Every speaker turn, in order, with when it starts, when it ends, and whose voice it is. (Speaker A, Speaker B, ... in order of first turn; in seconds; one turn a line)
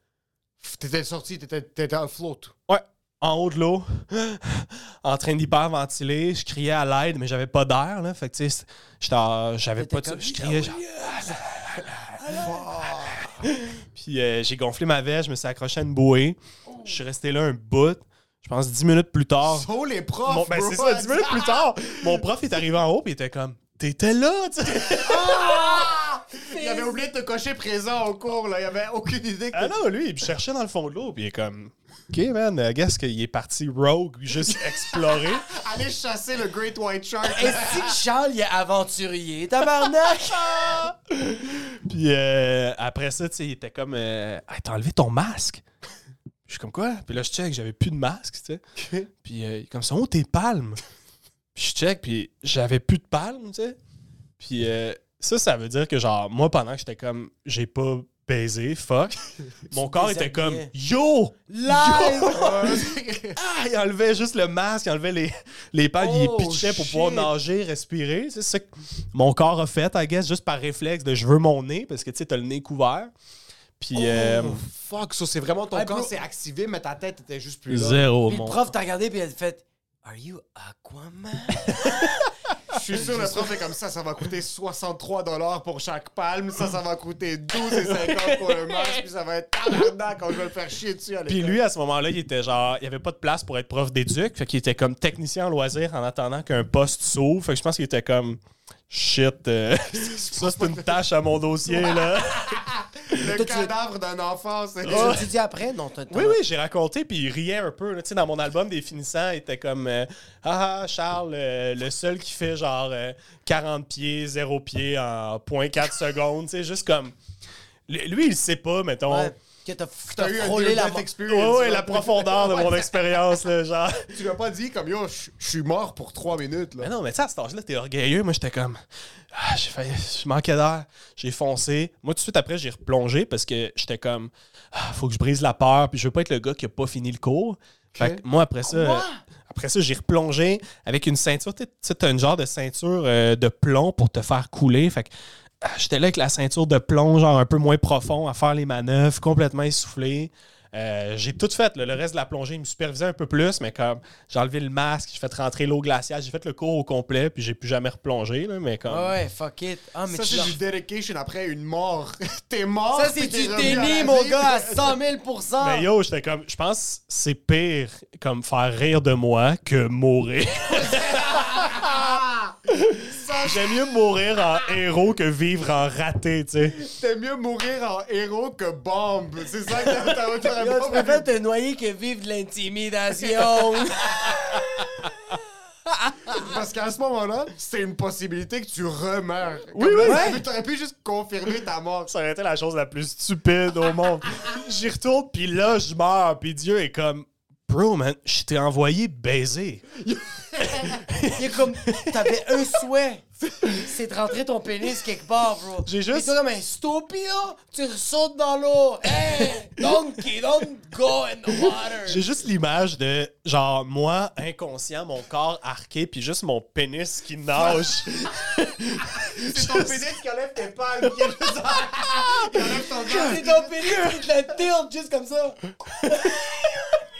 Speaker A: 0.6-2.5
Speaker B: 2.7-12.3
Speaker C: 9.8-12.6
Speaker A: 12.3-13.5
Speaker B: 13.3-19.7
Speaker C: 16.7-16.9
Speaker A: 19.4-22.3
Speaker B: 20.2-25.3
Speaker C: 25.0-26.9
Speaker A: 25.1-29.8
Speaker B: 29.5-35.5
Speaker A: 34.5-38.0
Speaker C: 37.2-40.7
Speaker B: 40.4-45.6
Speaker B: 46.5-50.8
Speaker B: 51.5-53.8
Speaker B: 54.4-73.1
Speaker C: 59.8-60.7
Speaker C: 61.5-62.8
Speaker A: 62.2-63.4
Speaker A: 66.0-67.3
Speaker B: 73.8-74.6
Speaker A: 73.9-78.0
Speaker C: 75.7-76.1
Speaker B: 77.7-78.6
Speaker C: 78.3-82.1
Speaker A: 82.7-91.6
Speaker C: 83.0-83.4
Speaker B: 87.7-89.0
Speaker B: 91.3-102.6
Speaker A: 99.9-101.0
Speaker A: 101.7-105.2
Speaker C: 103.3-103.7
Speaker B: 104.8-105.3
Speaker C: 104.8-106.4
Speaker B: 106.1-117.1
Speaker B: 117.9-119.3
Speaker C: 119.1-121.1
Speaker A: 120.1-122.9
Speaker B: 121.3-124.2
Speaker A: 124.1-126.9
Speaker B: 126.8-128.8
Speaker B: 129.3-159.1
Speaker A: 137.9-138.2
Speaker C: 138.7-139.2
Speaker C: 158.9-160.6
Speaker A: 160.1-165.0
Speaker C: 162.9-165.8
Speaker B: 165.6-172.2
Speaker A: 170.7-172.5
Speaker B: 172.7-176.8
Speaker A: 173.1-173.6
Speaker A: 176.8-181.3
Speaker C: 180.6-184.6
Speaker A: 186.3-192.1
Speaker B: 189.7-190.4
Speaker C: 190.0-190.4
Speaker B: 192.1-199.9
Speaker A: 200.0-201.1
Speaker B: 200.7-202.3
Speaker C: 201.3-212.2
Speaker B: 205.8-206.3
Speaker B: 212.0-220.1
Speaker A: 217.6-217.9
Speaker A: 219.3-223.9
Speaker B: 221.0-221.5
Speaker B: 222.1-222.6
Speaker C: 223.0-227.0